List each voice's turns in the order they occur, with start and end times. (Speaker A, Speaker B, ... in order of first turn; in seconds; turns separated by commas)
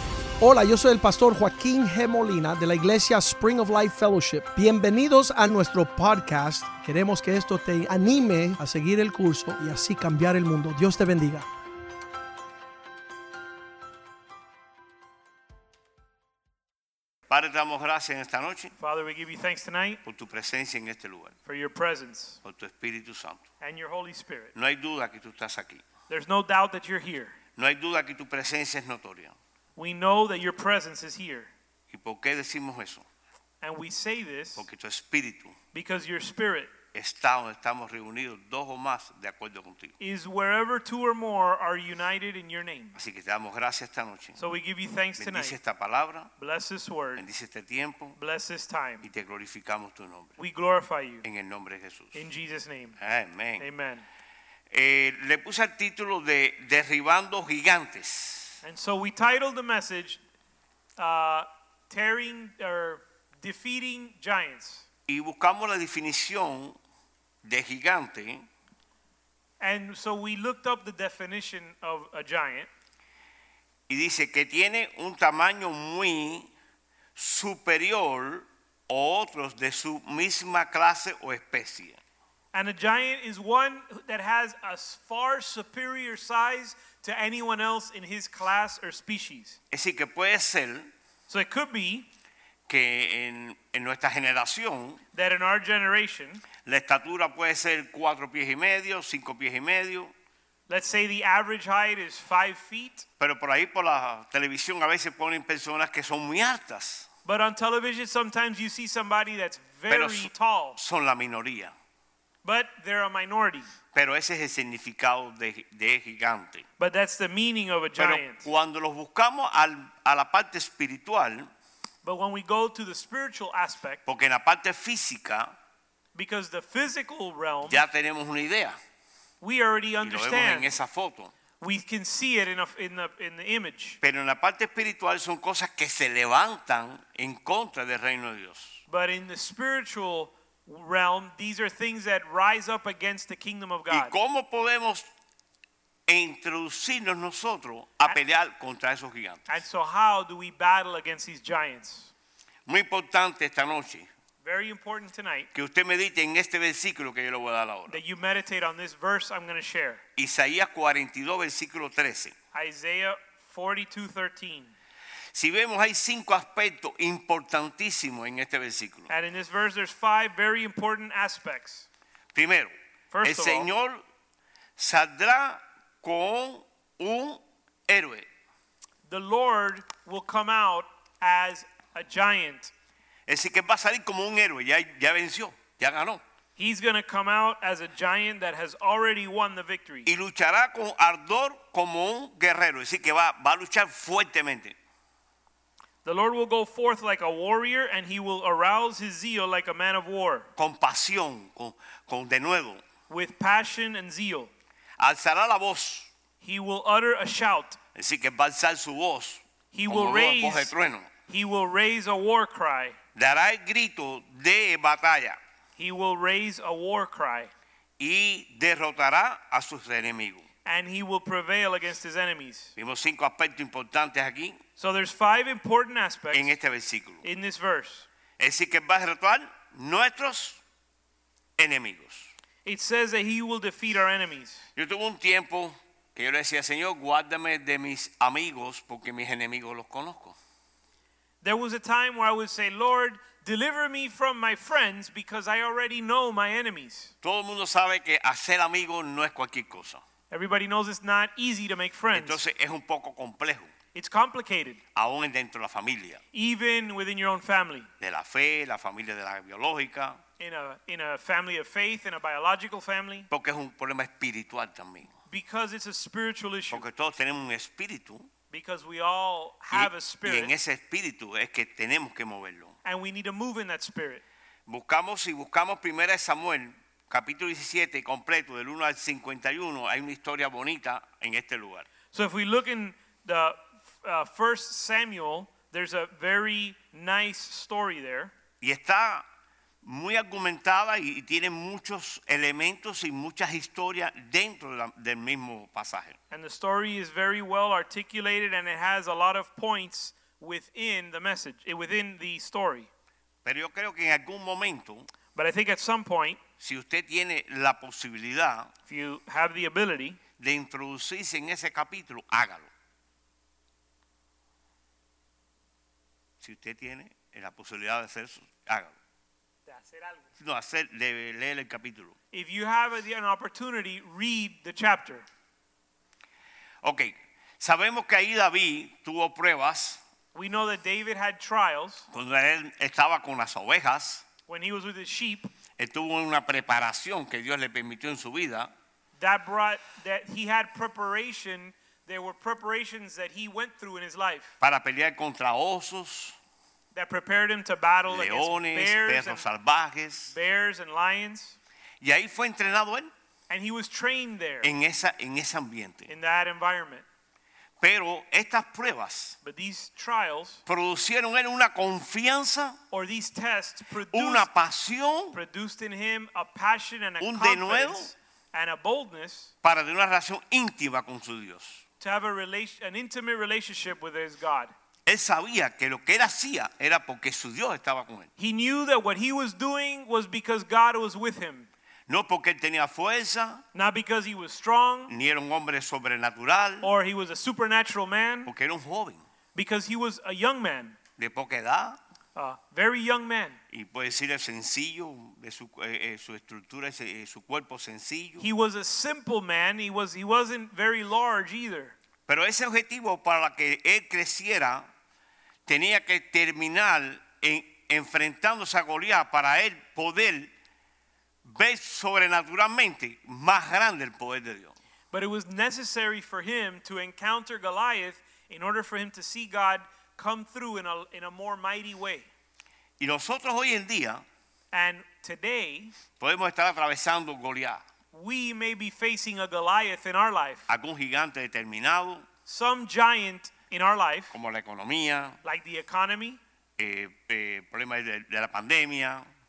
Speaker A: 0.4-11.4, Speaker B: 17.3-18.7, Speaker C: 18.8-20.0, Speaker B: 20.0-21.3, Speaker C: 21.4-22.4, Speaker B: 22.4-23.4, Speaker C: 23.6-24.5, Speaker B: 24.5-25.8, Speaker C: 26.1-27.4, Speaker B: 27.6-29.4, Speaker C: 29.8-31.5, Speaker B: 31.9-33.0, Speaker C: 33.6-34.6, Speaker B: 34.5-35.5, Speaker C: 35.7-36.7, Speaker B: 36.9-39.9, Speaker C: 40.0-43.0, Speaker B: 42.9-44.4, Speaker C: 44.4-45.6, Speaker B: 45.2-46.3, Speaker C: 46.4-47.2, Speaker B: 47.1-48.2, Speaker C: 48.1-49.0, Speaker B: 49.0-50.4, Speaker C: 50.4-51.2, Speaker B: 51.2-52.2, Speaker C: 52.1-53.0, Speaker B: 53.0-53.6, Speaker C: 53.6-54.0, Speaker B: 54.7-58.6, Speaker C: 58.6-60.2, Speaker C: 61.0-64.8, Speaker B: 65.1-66.8, Speaker B: 67.4-68.5, Speaker C: 69.6-72.7, Speaker B: 73.9-76.5, Speaker B: 77.1-82.0, Speaker C: 82.5-89.6, Speaker B: 89.7-90.9, Speaker C: 91.3-92.1, Speaker B: 92.7-95.0, Speaker C: 95.1-96.4, Speaker B: 96.6-100.1, Speaker C: 100.7-103.1, Speaker B: 103.2-107.1, Speaker C: 107.2-110.8, Speaker B: 109.9-111.7, Speaker C: 112.4-113.7, Speaker B: 113.9-116.6, Speaker C: 116.8-118.5, Speaker B: 118.0-121.5, Speaker C: 122.0-124.0, Speaker B: 124.0-125.5, Speaker C: 126.1-127.8, Speaker B: 127.7-128.8, Speaker C: 129.4-130.7, Speaker B: 130.0-131.3, Speaker C: 131.6-134.0, Speaker B: 134.0-138.8, Speaker C: 138.9-144.1, Speaker B: 143.9-145.1, Speaker B: 146.1-149.5, Speaker C: 149.5-152.1, Speaker B: 152.7-154.1, Speaker C: 154.4-155.5, Speaker B: 155.5-158.0, Speaker C: 157.9-160.0, Speaker B: 160.2-162.3, Speaker C: 162.5-164.7, Speaker B: 165.3-169.1, Speaker C: 169.1-171.9, Speaker B: 172.3-174.0, Speaker C: 173.1-173.7, Speaker B: 174.8-178.3, Speaker C: 179.1-182.7, Speaker B: 183.3-186.2, Speaker C: 186.6-190.1, Speaker B: 190.1-194.8, Speaker C: 196.0-200.5, Speaker B: 200.6-202.8, Speaker C: 203.1-204.5, Speaker B: 205.0-206.1, Speaker C: 206.4-207.8, Speaker B: 207.9-211.1, Speaker C: 209.7-210.7, Speaker C: 211.3-212.9, Speaker B: 213.1-215.4, Speaker C: 215.8-217.5, Speaker B: 218.0-220.4, Speaker C: 220.6-222.7, Speaker B: 222.8-224.6, Speaker C: 224.8-226.5, Speaker B: 226.3-227.2, Speaker C: 227.2-228.1, Speaker B: 228.4-230.6, Speaker B: 231.6-232.3, Speaker C: 232.6-234.7, Speaker B: 234.8-240.4, Speaker C: 241.4-247.1, Speaker B: 247.2-250.0, Speaker C: 250.3-252.4, Speaker B: 252.1-253.7, Speaker C: 253.9-254.8, Speaker B: 254.9-256.2, Speaker C: 256.3-257.9, Speaker B: 258.0-260.2, Speaker C: 260.4-263.3, Speaker B: 263.3-265.1, Speaker C: 265.3-266.8, Speaker B: 266.7-268.3, Speaker C: 268.5-270.5, Speaker B: 269.7-272.7, Speaker C: 272.8-274.2, Speaker B: 274.7-281.9, Speaker C: 282.1-288.3, Speaker B: 288.6-289.2, Speaker B: 289.8-296.2, Speaker C: 296.3-302.9, Speaker B: 303.4-305.1, Speaker C: 305.3-306.4, Speaker B: 306.6-308.7, Speaker C: 308.9-310.2, Speaker B: 310.4-312.7, Speaker B: 316.4-318.9, Speaker C: 319.7-320.2, Speaker B: 320.4-322.1, Speaker C: 322.3-325.2, Speaker B: 326.8-330.0, Speaker C: 330.3-332.1, Speaker B: 332.1-334.2, Speaker C: 334.5-335.5, Speaker B: 335.8-338.7, Speaker C: 339.2-344.5, Speaker B: 344.6-346.4, Speaker C: 346.9-349.4, Speaker B: 348.1-350.3, Speaker C: 350.3-351.6, Speaker B: 352.0-353.1, Speaker C: 353.5-354.7, Speaker B: 354.6-356.1, Speaker C: 356.1-357.0, Speaker B: 357.8-359.4, Speaker C: 359.4-360.6, Speaker B: 360.7-362.8, Speaker C: 362.9-364.5, Speaker B: 364.1-365.4, Speaker C: 365.3-369.5, Speaker B: 367.2-368.1, Speaker B: 369.6-371.8, Speaker C: 372.0-374.7, Speaker B: 375.1-378.3, Speaker C: 378.4-381.7, Speaker B: 382.1-383.6, Speaker C: 383.7-385.1, Speaker B: 385.1-386.9, Speaker C: 386.8-388.5, Speaker B: 388.4-389.2, Speaker C: 389.5-390.9, Speaker B: 391.2-392.0, Speaker C: 392.3-393.6, Speaker B: 393.7-398.4, Speaker C: 398.4-401.9, Speaker B: 402.3-404.9, Speaker B: 405.6-410.5, Speaker B: 411.4-414.8, Speaker C: 415.1-422.3, Speaker B: 423.0-424.2, Speaker C: 424.7-425.9, Speaker B: 426.2-427.8, Speaker C: 428.1-430.7, Speaker B: 430.7-432.2, Speaker C: 432.4-434.4, Speaker B: 434.3-435.4, Speaker C: 435.4-436.4, Speaker B: 436.8-439.3